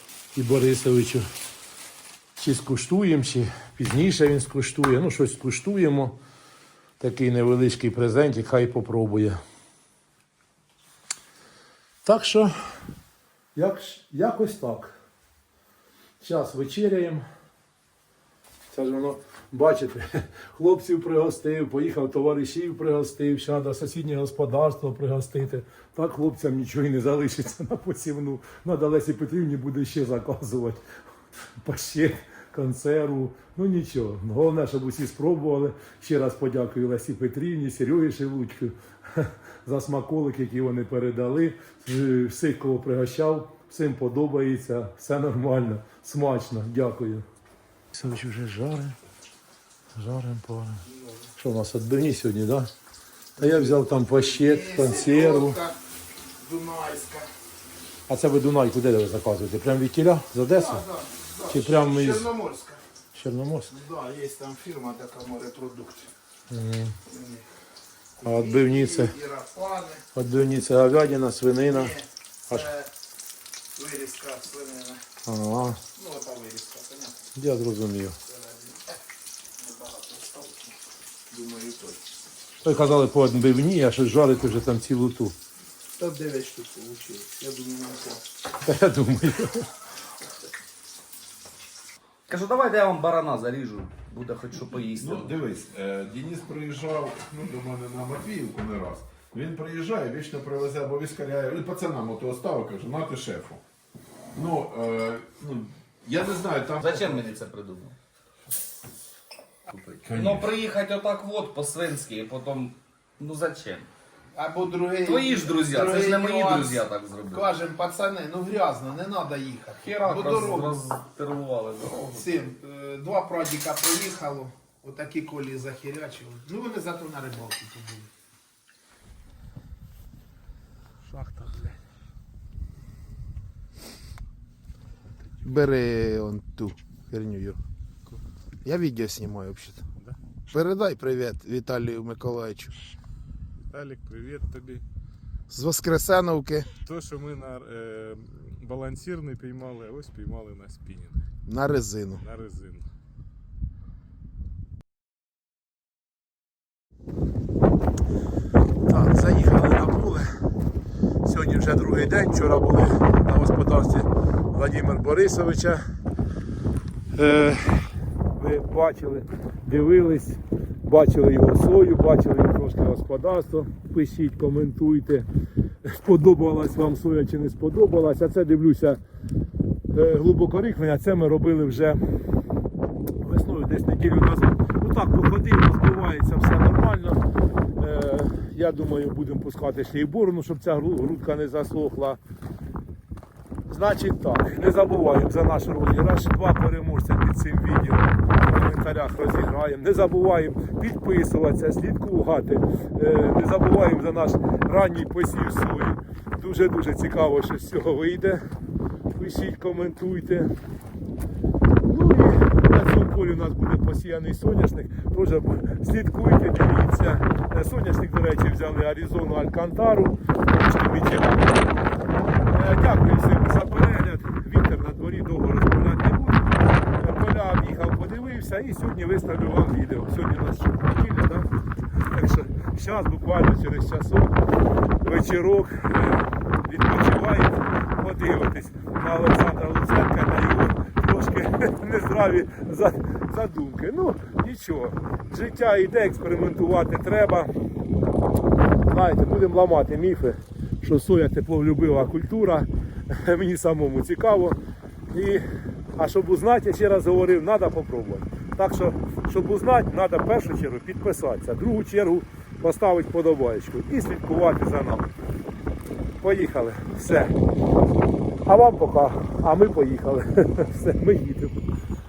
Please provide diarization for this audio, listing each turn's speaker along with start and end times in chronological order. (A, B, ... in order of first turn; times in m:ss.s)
0:00.3-0:01.3 A
0:02.4-0:06.2 A
0:07.0-0:09.4 A
0:12.0-0:12.5 A
0:13.5-0:14.9 A
0:16.2-0:17.2 A
0:18.7-0:30.8 A
0:31.6-0:47.2 A
0:47.9-0:49.0 A
0:49.9-0:50.8 A
0:51.4-0:52.7 A
0:53.4-0:55.6 A
0:53.4-0:55.8 B
0:56.4-0:57.3 B
0:58.1-1:00.8 A
1:00.5-1:02.8 B
1:01.5-1:02.3 A
1:03.1-1:03.7 A
1:03.7-1:06.1 B
1:06.5-1:07.0 A
1:07.0-1:07.4 B
1:08.2-1:10.0 B
1:08.2-1:09.1 A
1:10.1-1:11.9 A
1:11.7-1:12.9 B
1:13.7-1:15.0 B
1:15.2-1:15.8 A
1:15.9-1:17.2 B
1:17.4-1:18.2 A
1:18.3-1:18.8 B
1:19.6-1:20.8 B
1:21.3-1:22.1 B
1:22.6-1:25.4 A
1:26.0-1:28.2 B
1:28.6-1:29.7 A
1:32.3-1:35.4 C
1:35.0-1:43.6 D
1:44.3-1:47.2 D
1:46.8-1:48.0 C
1:49.7-1:53.9 C
1:50.0-1:50.5 D
1:54.4-2:00.8 B
1:55.0-1:57.5 C
1:59.8-2:02.4 C
2:02.1-2:08.1 B
2:11.0-2:11.8 B
2:15.4-2:17.6 B
2:18.6-2:19.8 B
2:20.5-2:22.7 B
2:23.7-2:24.8 E
2:25.5-2:26.7 B
2:26.8-2:31.2 E
2:31.4-2:32.2 B
2:32.2-2:32.8 E
2:38.9-2:40.4 A
2:41.2-2:45.8 A
2:47.1-2:55.2 A
2:55.8-2:59.0 A
2:59.9-3:02.3 A
3:03.2-3:07.2 A
3:07.8-3:12.2 A
3:13.7-3:28.4 A
3:29.1-3:30.5 A
3:31.8-3:41.6 A
3:42.5-3:51.5 A
3:52.1-3:54.3 A
3:55.0-4:07.5 A
4:08.8-4:14.6 A
4:15.1-4:25.1 A
4:26.2-4:27.4 A
4:28.4-4:31.6 A